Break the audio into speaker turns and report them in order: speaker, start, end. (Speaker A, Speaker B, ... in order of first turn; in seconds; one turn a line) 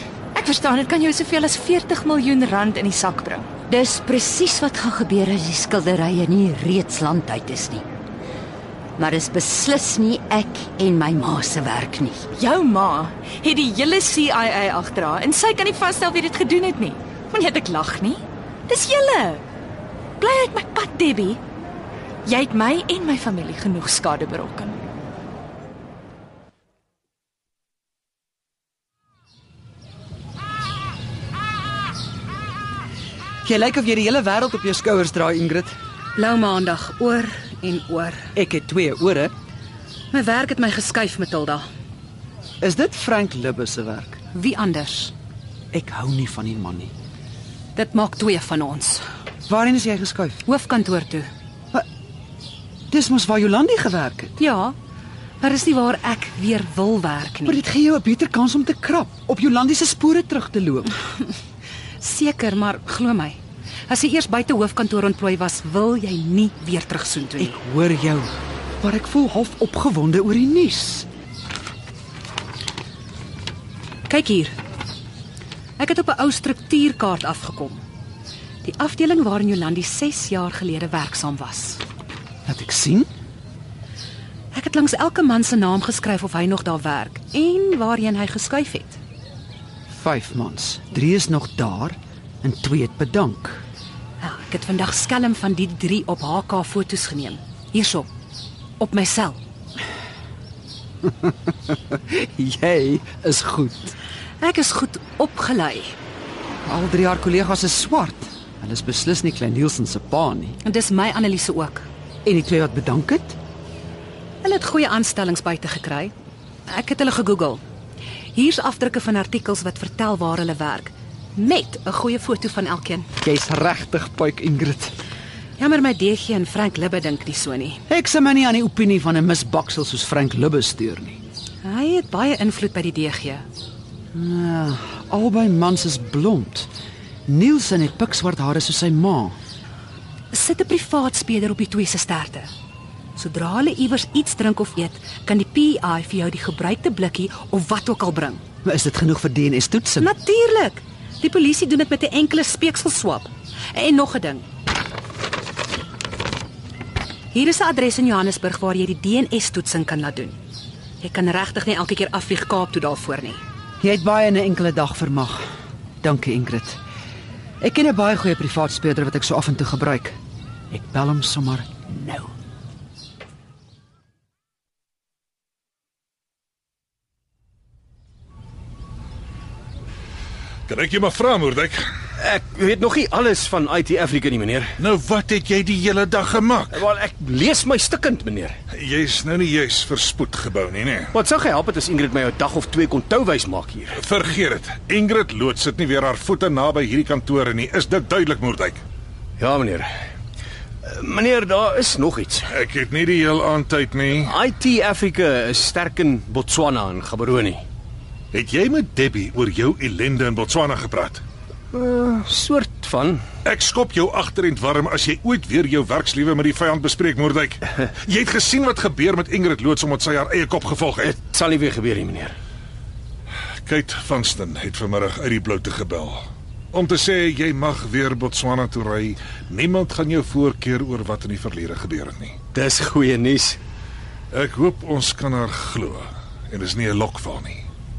Speaker A: 0.3-3.5
Speaker B: 3.7-7.8
Speaker B: 9.0-12.2
Speaker A: 12.3-19.4
Speaker A: 20.2-21.4
Speaker A: 22.2-24.8
Speaker C: 33.4-35.7
Speaker D: 36.1-38.2
Speaker C: 38.3-39.3
Speaker D: 40.1-41.6
Speaker C: 42.6-44.2
Speaker D: 44.3-45.1
Speaker C: 45.7-46.9
Speaker D: 47.7-49.0
Speaker C: 49.5-50.4
Speaker D: 50.4-51.3
Speaker C: 52.9-54.4
Speaker D: 54.4-54.7
Speaker D: 55.4-57.6
Speaker C: 57.4-60.9
Speaker D: 62.0-67.6
Speaker C: 67.4-71.1
Speaker D: 74.1-74.5
Speaker D: 75.8-77.8
Speaker D: 78.6-81.8
Speaker C: 82.5-83.1
Speaker D: 84.5-89.0
Speaker C: 89.9-93.6
Speaker D: 94.2-98.1
Speaker D: 98.8-99.4
Speaker C: 101.9-103.9
Speaker D: 104.4-105.9
Speaker C: 106.7-110.6
Speaker D: 110.6-111.9
Speaker C: 112.2-113.4
Speaker D: 114.4-116.1
Speaker D: 116.7-117.6
Speaker D: 118.3-123.1
Speaker C: 123.2-125.0
Speaker D: 125.6-127.8
Speaker C: 127.9-131.2
Speaker D: 131.6-133.4
Speaker C: 134.1-136.7
Speaker C: 137.3-139.3
Speaker D: 140.3-142.5
Speaker D: 143.1-148.4
Speaker C: 148.6-150.1
Speaker D: 150.0-154.4
Speaker D: 157.3-160.4
Speaker D: 161.0-163.4
Speaker C: 163.8-165.4
Speaker C: 166.0-166.8
Speaker C: 167.6-170.2
Speaker C: 170.7-172.3
Speaker E: 180.7-181.8
Speaker F: 182.2-184.8
Speaker E: 184.8-186.8
Speaker F: 186.7-188.6
Speaker E: 188.7-191.1
Speaker F: 191.1-194.0
Speaker E: 193.9-198.8
Speaker F: 199.4-199.9
Speaker F: 200.8-202.5
Speaker E: 202.5-204.3
Speaker F: 204.1-207.6
Speaker E: 208.3-211.2
Speaker F: 211.7-213.2
Speaker E: 213.4-221.1
Speaker F: 221.0-222.3
Speaker E: 223.7-232.4
Speaker F: 232.5-233.6
Speaker E: 234.3-237.6